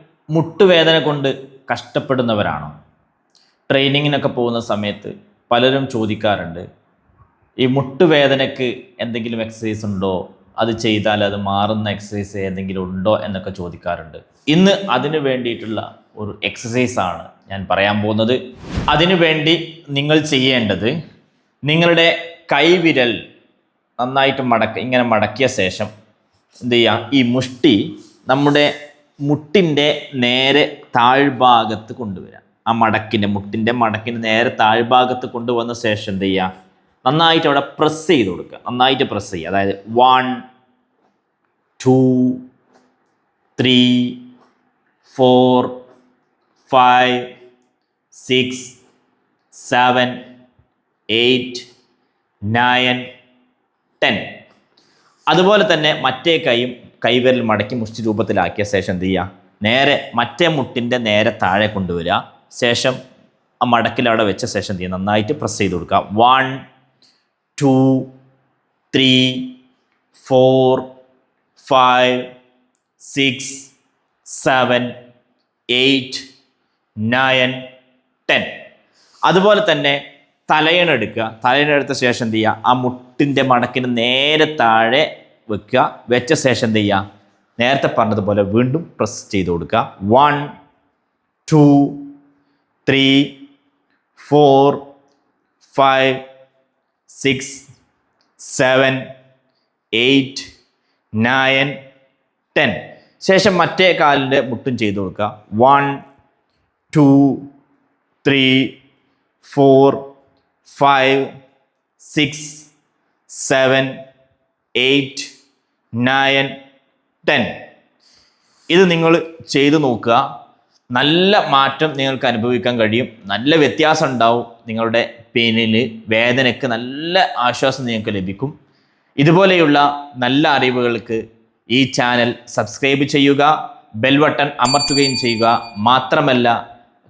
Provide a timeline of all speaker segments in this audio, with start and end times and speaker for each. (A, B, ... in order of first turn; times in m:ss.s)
0:00.3-0:02.7 A
0:03.7-0:06.6 A
0:07.6-0:18.4 A
0:18.9-0:20.9 A
0:21.7-0:23.2 A
0:24.0-0:25.9 A
0:26.6-0:28.7 A
0:29.2-0:36.5 A
0:37.0-0:40.4 A
0:41.8-0:42.4 A
0:43.6-0:44.2 A
0:45.1-0:45.7 A
0:46.7-0:47.3 A
0:48.1-0:48.8 A
0:49.5-0:50.2 A
0:51.1-0:51.6 A
0:52.5-0:53.0 A
0:54.0-0:54.2 A
0:55.3-1:03.0 A
1:03.6-1:06.6 A
1:07.6-1:08.1 A
1:08.9-1:09.5 A
1:10.2-1:10.8 A
1:11.6-1:12.2 A
1:13.0-1:13.7 A
1:14.2-1:14.9 A
1:15.7-1:16.2 A
1:17.0-1:17.6 A
1:18.3-1:18.5 A
1:19.3-1:27.0 A
1:27.6-1:30.4 A
1:31.4-1:32.1 A
1:32.8-1:33.3 A
1:34.2-1:34.8 A
1:35.6-1:36.2 A
1:37.1-1:37.6 A
1:38.4-1:39.0 A
1:39.9-1:40.5 A
1:41.2-1:41.7 A
1:42.5-1:46.0 A
1:46.9-1:47.5 A
1:48.2-1:48.7 A
1:49.4-1:50.0 A
1:50.7-1:51.3 A
1:52.0-1:52.7 A
1:53.3-1:53.9 A
1:54.8-1:55.3 A
1:56.0-1:56.5 A
1:57.2-1:57.6 A
1:58.7-2:00.2 A
2:00.9-2:08.5 A
2:09.2-2:11.2 A
2:11.7-2:13.5 A
2:14.0-2:16.5 A